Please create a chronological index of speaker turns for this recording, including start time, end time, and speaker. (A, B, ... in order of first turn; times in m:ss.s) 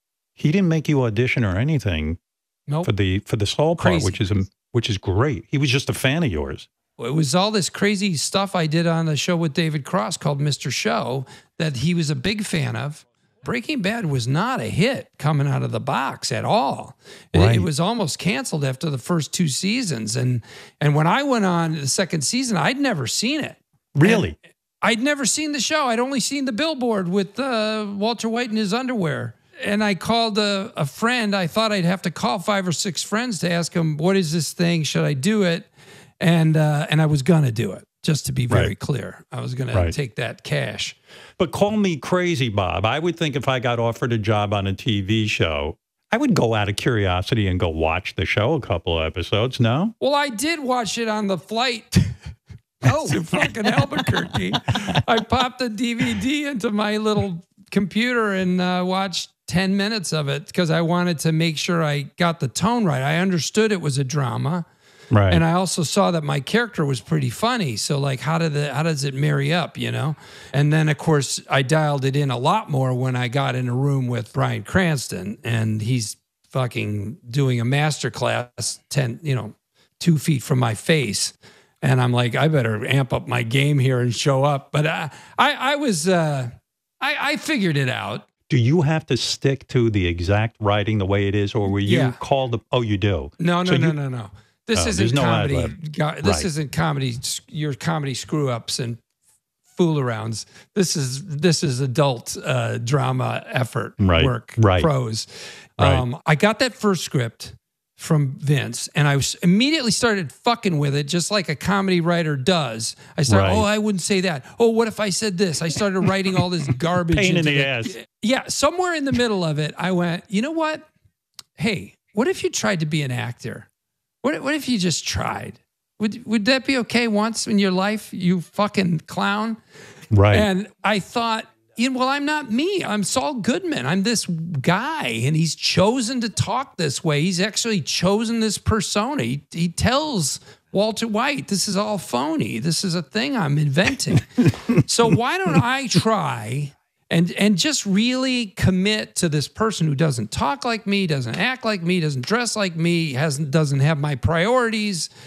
0:00.4-0:02.2 A
0:02.8-0:06.7 A
0:03.8-0:04.2 B
0:07.0-0:24.3 B
0:17.3-0:17.7 A
0:24.0-0:24.4 A
0:24.8-0:35.7 B
0:36.2-0:41.0 B
0:41.4-0:49.9 A
0:50.0-0:52.1 B
0:52.8-1:04.6 B
1:05.1-1:05.4 A
1:05.3-1:28.3 B
1:28.5-1:33.9 A
1:31.8-1:32.2 B
1:33.4-1:39.0 B
1:34.7-1:36.5 A
1:39.7-2:00.8 B
1:44.0-1:44.9 A
1:45.8-1:46.0 A
1:53.3-1:53.6 A
1:57.1-1:58.0 A
2:01.6-2:03.7 B
2:04.2-2:09.6 B
2:10.1-2:10.5 A
2:10.3-2:35.1 B